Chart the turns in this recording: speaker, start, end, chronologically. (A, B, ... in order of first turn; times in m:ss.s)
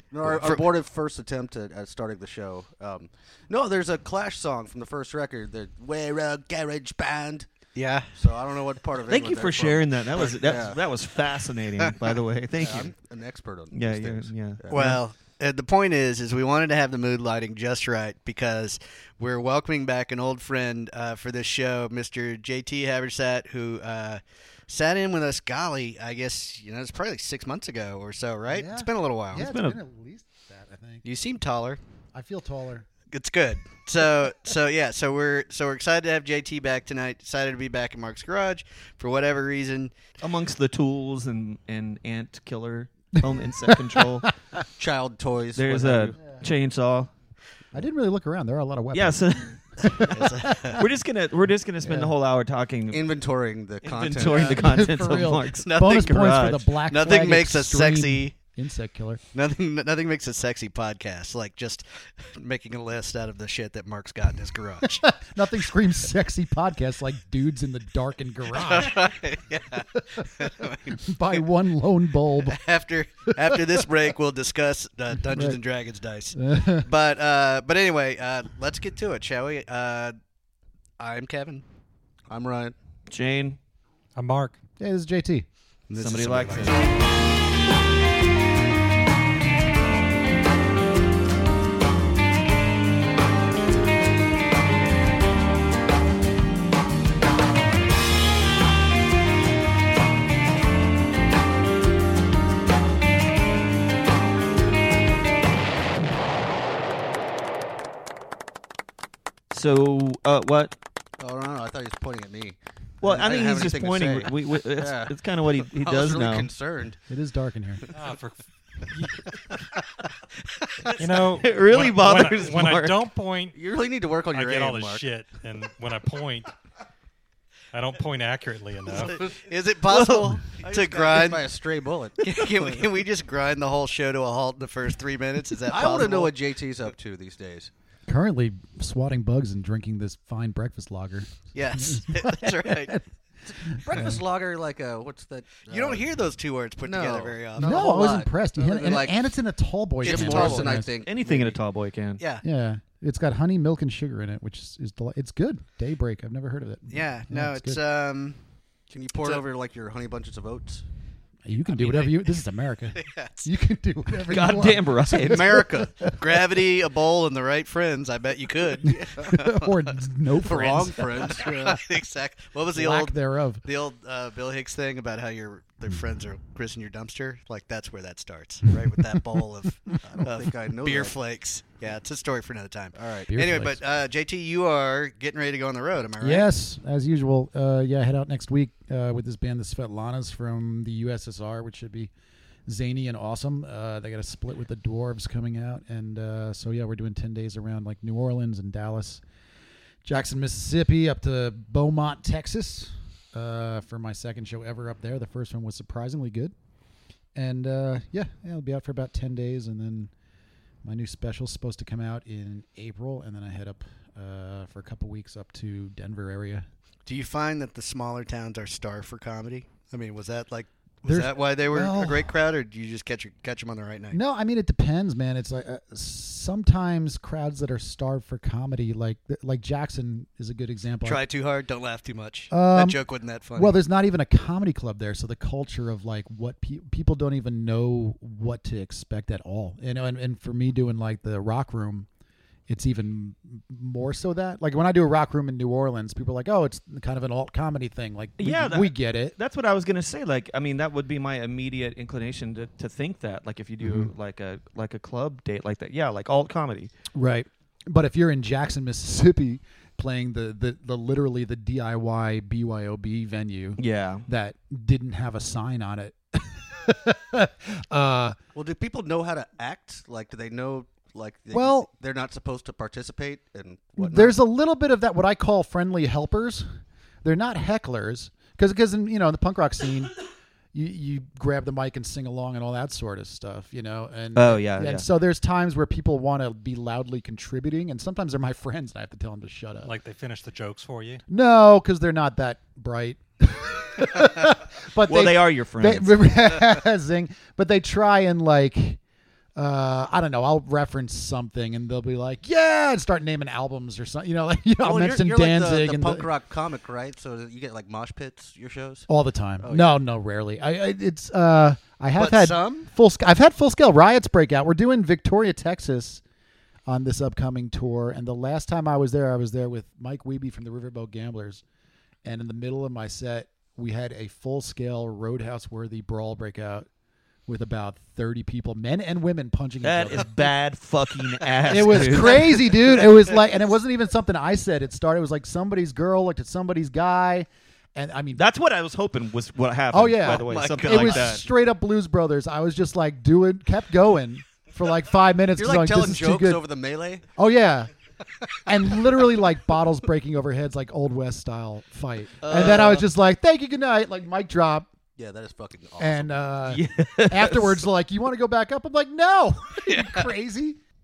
0:00.1-0:07.5 A
0:00.3-0:00.6 B
0:07.7-0:08.1 B
0:08.1-0:10.8 A
0:09.1-0:12.9 C
0:12.6-0:14.8 A
0:13.7-0:15.0 C
0:14.7-0:29.4 B
0:28.5-0:31.0 D
0:29.4-0:29.8 C
0:31.0-0:31.8 B
0:32.1-0:32.9 D
0:33.1-0:39.9 B
0:40.2-0:44.3 C
0:43.2-0:44.3 D
0:44.8-0:46.2 A
0:45.6-0:47.1 C
0:47.7-0:50.8 D
0:48.9-0:53.1 C
0:50.1-0:50.8 B
0:51.8-0:52.1 D
0:52.9-0:54.6 A
0:53.8-0:56.7 C
0:54.4-0:59.2 D
0:55.6-0:58.3 B
0:59.3-1:05.0 B
1:04.8-1:09.1 D
1:08.5-1:11.4 B
1:09.9-1:12.6 D
1:12.5-1:20.2 B
1:13.3-1:13.8 D
1:15.2-1:15.6 D
1:16.3-1:16.9 D
1:21.0-1:21.6 B
1:22.3-1:22.7 A
1:23.1-1:23.6 C
1:24.1-1:24.6 E
1:24.8-1:25.4 D
1:25.9-1:26.9 B
1:26.0-1:26.9 C
1:49.5-1:50.7 C
1:51.2-1:55.1 A
1:53.0-1:56.5 C
1:55.6-1:57.0 A
1:57.1-1:57.8 D
1:57.9-1:58.4 E
1:58.9-1:59.2 E
2:01.0-2:03.6 E
2:01.2-2:03.0 C
2:03.5-2:05.0 A
2:04.3-2:06.5 E
2:07.7-2:09.2 E
2:08.9-2:09.2 A
2:09.2-2:11.4 B
2:09.9-2:10.4 C
2:10.6-2:12.8 A
2:12.2-2:16.3 B
2:15.7-2:17.7 A
2:18.1-2:24.2 D
2:21.5-2:22.9 B
2:23.6-2:26.1 A
2:25.7-2:28.3 B
2:26.8-2:29.1 A
2:27.6-2:30.9 D
2:30.0-2:30.8 B
2:30.0-2:31.6 A
2:31.0-2:32.2 C
2:32.2-2:32.4 B
2:32.4-2:37.8 D
2:36.9-2:38.4 B
2:38.9-2:40.8 A
2:39.1-2:39.4 B
2:41.4-2:46.4 D
2:41.7-2:42.1 B
2:43.0-2:43.5 B
2:44.3-2:45.7 C
2:45.1-2:45.9 A
2:46.0-2:49.6 B
2:48.8-2:51.8 D
2:50.4-2:51.7 A
2:50.6-3:06.4 B
2:52.7-2:53.6 D
3:00.0-3:01.2 A
3:02.9-3:03.4 A
3:03.3-3:03.8 D
3:06.2-3:12.1 D
3:12.6-3:19.2 D
3:20.0-3:26.5 D
3:27.3-3:30.1 D
3:30.8-3:36.7 D
3:37.0-3:44.2 B
3:41.0-3:42.3 D
3:44.1-3:51.2 D
3:51.0-3:53.8 B
3:52.5-3:53.0 D
3:53.5-4:02.1 D
4:02.7-4:09.4 D
4:08.4-4:16.9 C
4:13.8-4:14.1 D
4:17.1-4:28.4 D
4:23.8-4:24.3 C
4:28.5-4:34.4 A
4:31.5-4:31.9 D
4:34.0-4:40.1 D
4:40.7-4:49.9 D
4:44.3-4:45.0 C
4:49.8-4:51.2 E
4:51.3-4:59.0 D
4:55.0-4:56.4 C
4:59.6-5:06.3 D
5:04.8-5:09.1 A
5:09.1-5:16.2 D
5:09.6-5:09.9 A
5:12.2-5:12.9 B
5:16.9-5:21.6 D
5:22.2-5:26.9 D
5:27.5-5:30.5 D
5:29.8-5:32.8 C
5:31.6-5:38.4 D
5:38.3-5:41.4 C
5:39.9-5:46.6 D
5:40.3-5:41.2 A
5:40.5-5:40.9 B
5:45.6-5:47.2 A
5:47.4-5:47.9 D
5:48.6-5:54.9 D
5:52.4-5:53.0 B
5:52.5-5:53.0 A
5:55.2-5:56.4 A
5:56.0-6:00.8 D
5:56.7-5:57.8 C